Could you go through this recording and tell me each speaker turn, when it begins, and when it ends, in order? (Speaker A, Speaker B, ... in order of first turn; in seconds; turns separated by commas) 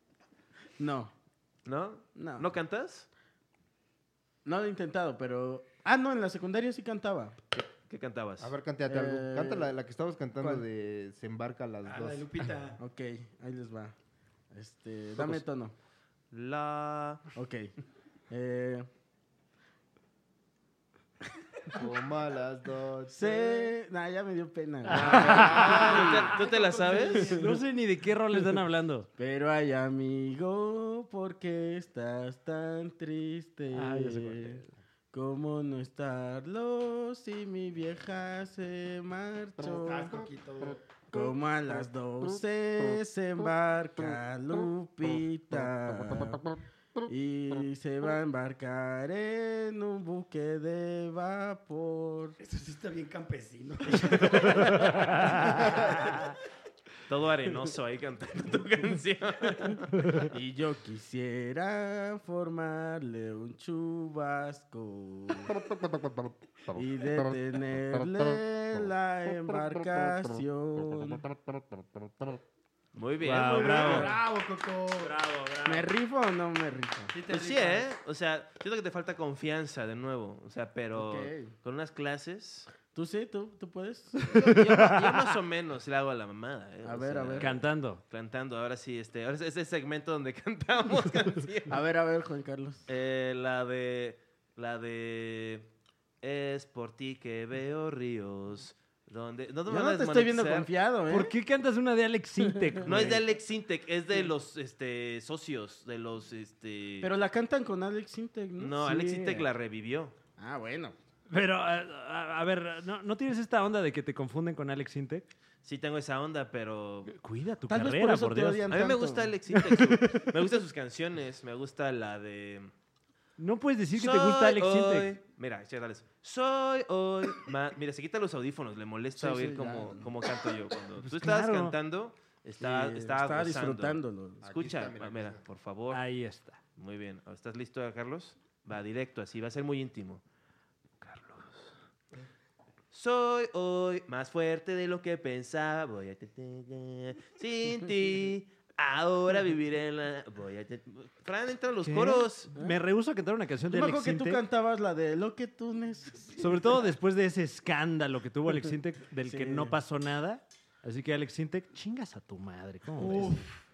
Speaker A: 0.8-1.1, Speaker B: 1.6-3.1, Speaker A: 2.1-2.5, Speaker A: 4.4-7.4, Speaker B: 7.5-8.5, Speaker C: 8.4-12.3, Speaker A: 8.9-9.7, Speaker D: 11.8-12.8, Speaker A: 12.8-13.9, Speaker A: 14.5-15.7, Speaker B: 16.3-17.3, Speaker A: 17.3-17.7, Speaker A: 18.3-18.9, Speaker C: 21.7-23.7, Speaker A: 23.1-27.6, Speaker E: 24.8-26.0, Speaker B: 24.9-27.4, Speaker D: 25.3-27.4, Speaker E: 27.2-29.1, Speaker A: 29.2-34.6, Speaker E: 33.7-34.7, Speaker A: 35.1-40.2, Speaker D: 39.6-40.9, Speaker A: 41.1-46.4, Speaker A: 47.0-52.4, Speaker D: 52.4-56.0, Speaker E: 54.4-56.3, Speaker B: 57.0-60.2, Speaker E: 60.0-60.3, Speaker A: 60.2-65.6, Speaker A: 66.7-71.3, Speaker B: 72.9-74.2, Speaker E: 73.2-74.2, Speaker D: 73.5-75.2, Speaker E: 74.9-75.9, Speaker A: 75.6-77.1, Speaker D: 77.1-77.9, Speaker B: 77.3-82.7, Speaker A: 81.0-81.5, Speaker A: 82.9-84.4, Speaker B: 84.3-91.8, Speaker E: 84.4-85.2, Speaker A: 86.8-87.6, Speaker E: 87.4-88.0, Speaker A: 91.7-92.8, Speaker B: 92.9-95.7, Speaker B: 96.2-100.7, Speaker A: 99.7-101.3, Speaker E: 101.1-103.2, Speaker A: 102.5-103.2, Speaker B: 102.8-107.1, Speaker A: 107.0-109.5, Speaker B: 108.6-110.1, Speaker A: 110.4-111.0, Speaker E: 111.3-115.3, Speaker B: 115.6-117.2, Speaker E: 117.1-118.7, Speaker A: 117.7-119.3, Speaker B: 118.7-122.7, Speaker E: 119.6-120.2, Speaker E: 123.4-125.2, Speaker B: 123.9-136.0, Speaker A: 129.2-130.0, Speaker E: 131.0-131.7, Speaker A: 132.6-134.5, Speaker C: 134.4-135.4, Speaker E: 135.9-136.6, Speaker B: 136.8-140.2, Speaker E: 141.0-141.5, Speaker B: 142.9-152.5, Speaker E: 151.8-154.4, Speaker A: 153.7-156.4, Speaker E: 156.4-163.4, Speaker A: 159.2-159.8, Speaker D: 162.9-163.6